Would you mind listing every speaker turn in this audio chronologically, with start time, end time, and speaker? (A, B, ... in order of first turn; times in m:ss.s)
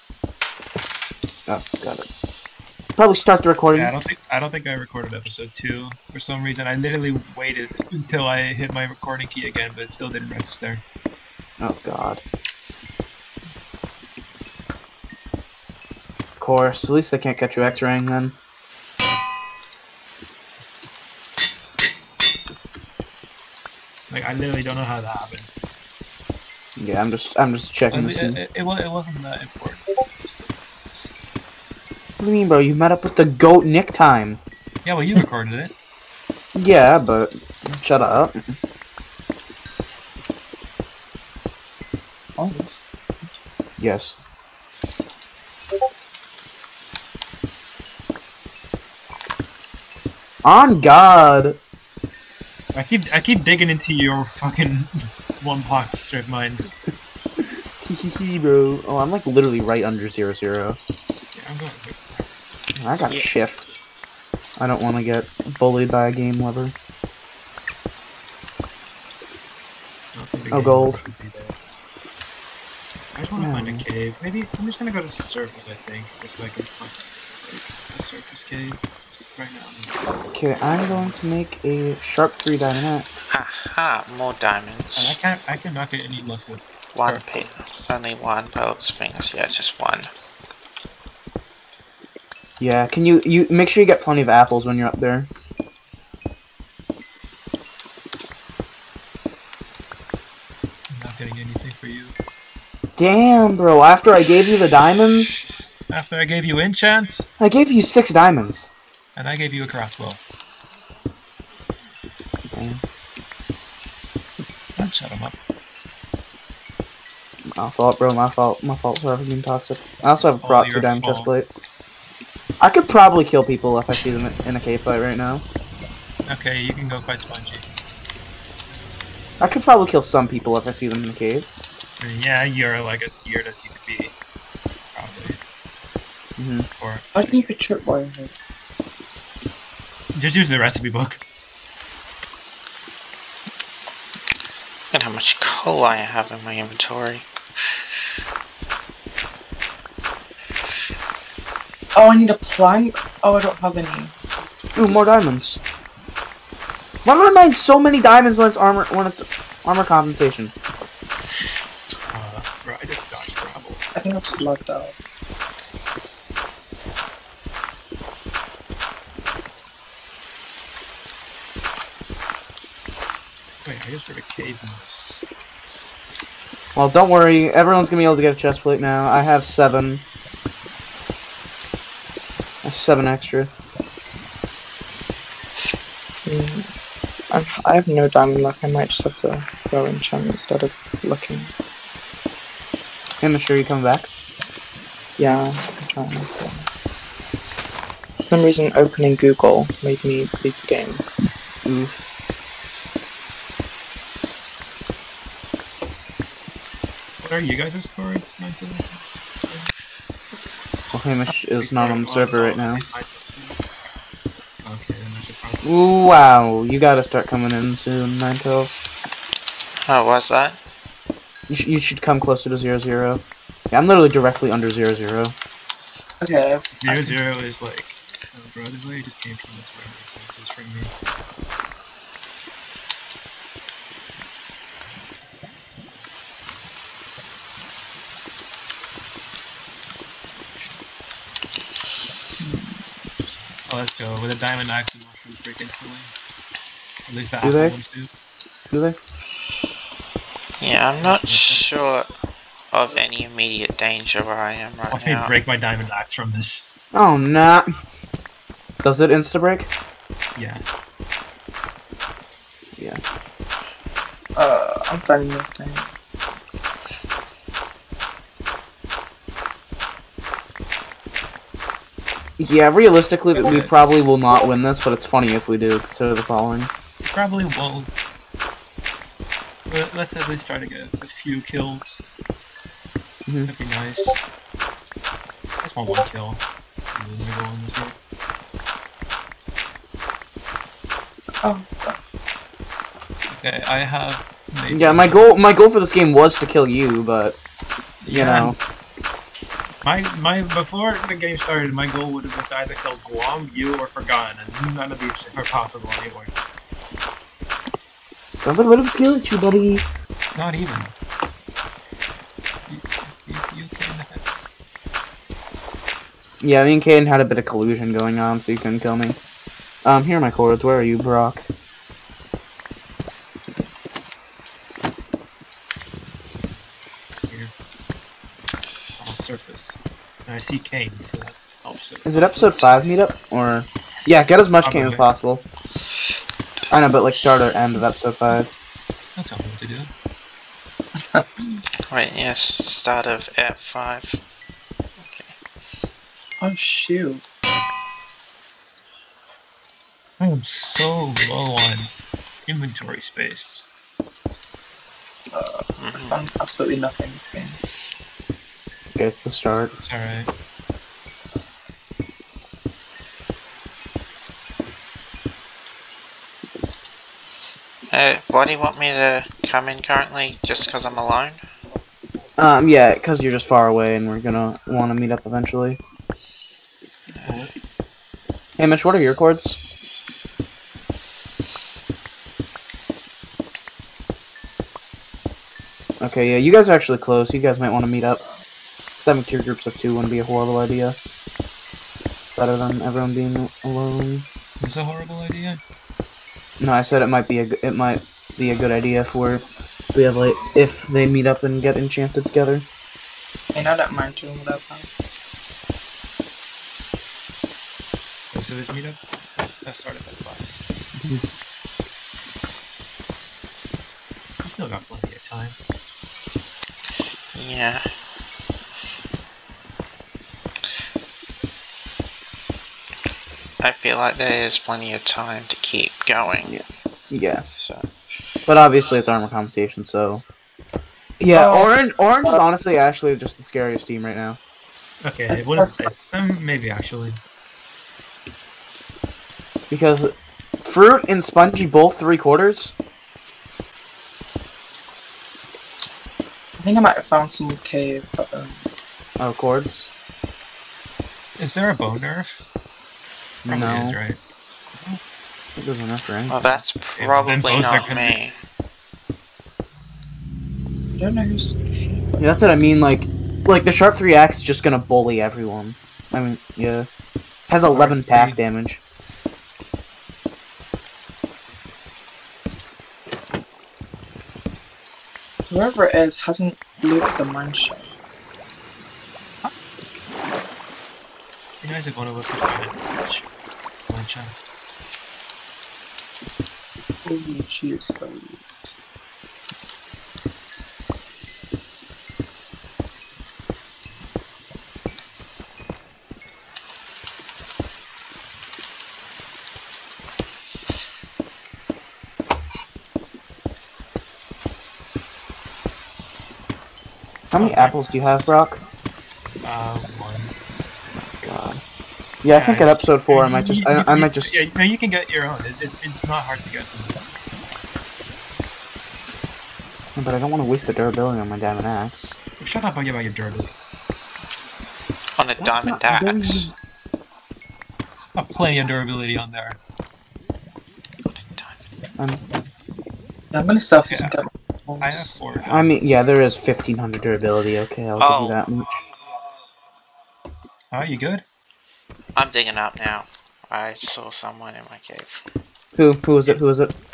0:01.5-0:02.1 A
0:03.0-0:03.9 A
0:03.7-0:10.8 B
0:11.6-0:12.2 A
0:16.4-0:18.4 A
0:24.1-0:25.5 B
0:26.8-0:28.4 A
0:27.9-0:31.1 B
0:32.2-0:34.4 A
0:34.8-0:35.7 B
0:36.6-0:38.6 A
0:42.4-0:42.8 C
0:43.8-0:44.2 A
0:50.4-0:51.6 A
0:52.7-0:56.7 B
0:57.4-1:00.8 A
1:01.4-1:02.4 B
1:02.8-1:03.7 A
1:03.1-1:03.4 D
1:04.6-1:06.8 A
1:10.1-1:11.6 B
1:10.5-1:11.0 A
1:13.2-1:18.8 B
1:13.4-1:13.9 A
1:19.3-1:20.0 B
1:20.3-1:23.3 A
1:20.9-1:21.2 B
1:23.3-1:25.2 D
1:25.0-1:27.9 B
1:26.9-1:30.1 D
1:32.6-1:35.3 A
1:40.9-1:42.2 B
1:43.0-1:45.4 A
1:45.9-1:47.3 B
1:47.4-1:48.7 A
1:49.2-1:50.2 B
1:52.5-1:52.8 A
1:54.8-1:55.4 B
1:57.6-2:01.5 A
2:00.4-2:01.3 B
2:02.6-2:05.4 A
2:06.3-2:07.7 B
2:09.4-2:11.5 A
2:12.0-2:14.1 B
2:14.9-2:15.4 B
2:16.4-2:16.7 A
2:16.8-2:17.5 B
2:17.1-2:18.3 C
2:20.2-2:21.2 B
2:24.9-2:27.3 D
2:31.9-2:34.2 C
2:34.8-2:35.6 A
2:37.0-2:40.5 A
2:42.1-2:43.8 B
2:44.0-2:45.0 C
2:53.6-2:55.2 B
2:56.8-3:00.0 A
3:02.6-3:03.5 A
3:06.3-3:06.7 C
3:07.3-3:11.5 C
3:13.2-3:14.1 A
3:15.2-3:16.7 C
3:18.2-3:21.0 C
3:21.6-3:22.1 A
3:27.2-3:29.7 B
3:30.9-3:32.8 A
3:31.5-3:33.6 B
3:34.4-3:36.0 B
3:35.6-3:38.8 A
3:39.8-3:40.6 D
3:41.5-3:45.4 A
3:46.2-3:47.1 C
3:46.8-3:50.9 B
4:02.4-4:02.8 C
4:03.7-4:06.1 B
4:07.1-4:08.1 B
4:07.4-4:07.8 A
4:08.7-4:09.0 A
4:10.6-4:12.1 D
4:11.0-4:11.6 B
4:12.7-4:15.3 D
4:14.9-4:16.7 B
4:16.9-4:17.7 A
4:18.8-4:19.7 A
4:20.4-4:20.7 B
4:22.8-4:23.0 A
4:24.4-4:25.9 C
4:32.4-4:36.7 A
4:33.4-4:33.7 B
4:37.0-4:37.9 B
4:39.7-4:42.0 B
4:43.5-4:44.2 B
4:45.6-4:46.4 B
4:46.9-4:48.0 B
4:51.4-4:52.0 C
4:53.3-4:55.3 B
4:54.7-4:57.4 A
4:58.0-4:58.6 B
4:58.1-4:58.6 A
4:59.8-5:06.3 B
5:08.4-5:09.9 A
5:10.3-5:10.9 B
5:12.7-5:14.2 B
5:16.4-5:19.2 A
5:19.8-5:21.5 A
5:27.3-5:27.5 B
5:29.0-5:32.7 B
5:32.0-5:35.4 A
5:34.6-5:35.1 B
5:36.7-5:38.5 A
5:39.2-5:39.9 B
5:41.9-5:44.2 D
5:45.0-5:45.3 D
5:46.4-5:47.2 C
5:50.2-5:51.9 B
5:52.5-5:53.7 B
5:55.3-5:57.6 C
5:55.8-5:56.2 D
5:58.9-5:59.8 A
5:59.8-6:00.3 B
6:07.9-6:11.4 D
6:12.4-6:15.8 A
6:17.1-6:17.4 D
6:17.2-6:17.5 B
6:18.6-6:19.6 A
6:26.0-6:28.2 A
6:29.0-6:31.0 A
6:32.4-6:34.3 A
6:34.6-6:35.6 B
6:36.6-6:42.7 A
6:43.5-6:44.9 C
6:48.3-6:49.0 B
6:49.6-6:50.5 B
6:51.0-6:51.2 A
6:54.4-6:55.6 B
6:57.3-6:57.9 D
7:03.6-7:06.6 D
7:06.4-7:07.5 A
7:07.5-7:07.9 D
7:08.5-7:10.2 A
7:11.2-7:14.4 A
7:11.3-7:11.7 C
7:15.0-7:17.2 B
7:15.3-7:15.8 C
7:19.7-7:20.1 A
7:20.6-7:22.8 A
7:26.6-7:28.7 C
7:29.2-7:29.9 A
7:31.4-7:32.5 B
7:33.4-7:34.2 B
7:33.5-7:34.0 A
7:34.7-7:35.0 B
7:35.6-7:36.4 A
7:36.3-7:38.3 D
7:36.4-7:38.2 B
7:41.0-7:42.1 C
7:42.2-7:46.9 A
7:47.5-7:48.8 A
7:47.7-7:48.4 B
7:55.5-7:57.9 C
8:01.6-8:03.3 B
8:03.9-8:04.4 B
8:07.0-8:08.8 C
8:27.3-8:28.6 A
8:27.3-8:28.3 B
8:29.4-8:30.3 B
8:31.2-8:31.6 A
8:32.2-8:34.4 A
8:32.3-8:37.0 B
8:40.0-8:42.2 A
8:42.4-8:43.6 B
8:45.2-8:46.5 D
8:45.4-8:46.5 A
8:48.2-8:49.6 B
8:51.1-8:51.6 D
8:53.3-8:55.2 C
8:53.8-8:54.2 B
8:54.8-8:55.8 B
8:55.4-8:58.8 A
8:58.0-8:58.4 D
9:00.7-9:01.2 B
9:02.2-9:05.2 D
9:05.8-9:06.7 A